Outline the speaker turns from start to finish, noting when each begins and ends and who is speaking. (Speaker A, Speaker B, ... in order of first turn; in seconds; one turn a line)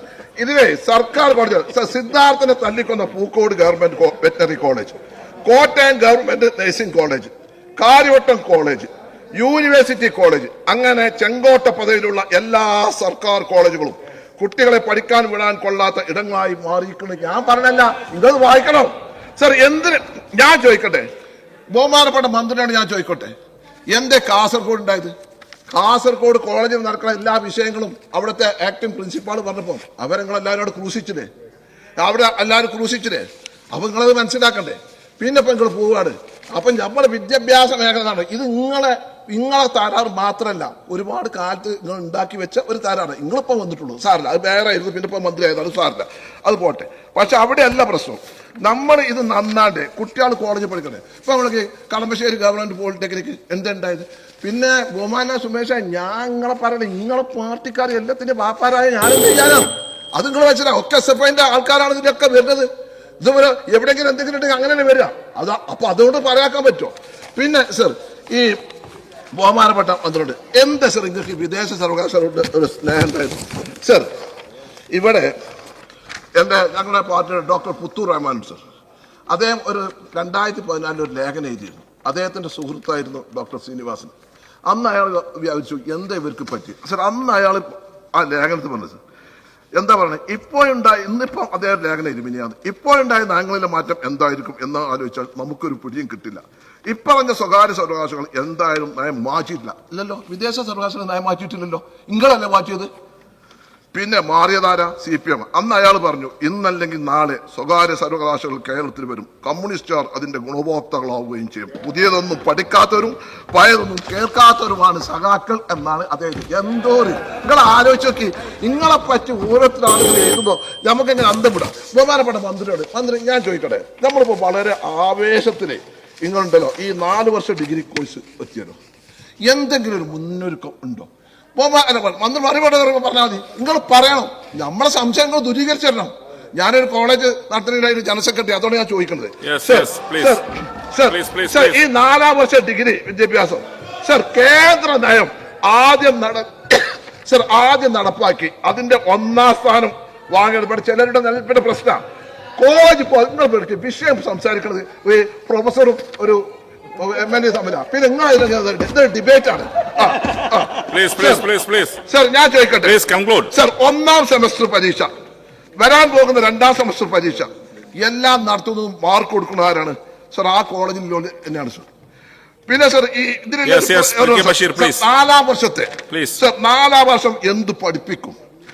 Speaker A: 0.4-21.1
Speaker A: 21.7-23.3
Speaker A: 23.9-25.1
Speaker A: 25.7-31.3
Speaker A: 32.0-62.7
Speaker A: 63.2-68.6
Speaker A: 69.3-74.1
Speaker A: 74.9-75.3
Speaker A: 76.4-78.6
Speaker A: 79.3-84.1
Speaker A: 84.7-89.0
Speaker A: 89.8-102.9
Speaker A: 103.9-128.8
Speaker A: 129.5-152.0
Speaker B: 139.4-140.4
Speaker B: 141.1-141.8
Speaker A: 152.6-156.4
Speaker A: 156.9-161.5
Speaker B: 160.9-162.0
Speaker A: 162.0-163.0
Speaker B: 162.8-163.5
Speaker A: 163.5-165.1
Speaker A: 165.8-167.5
Speaker A: 168.0-171.9
Speaker A: 172.7-178.4
Speaker B: 173.6-175.0
Speaker B: 176.1-176.4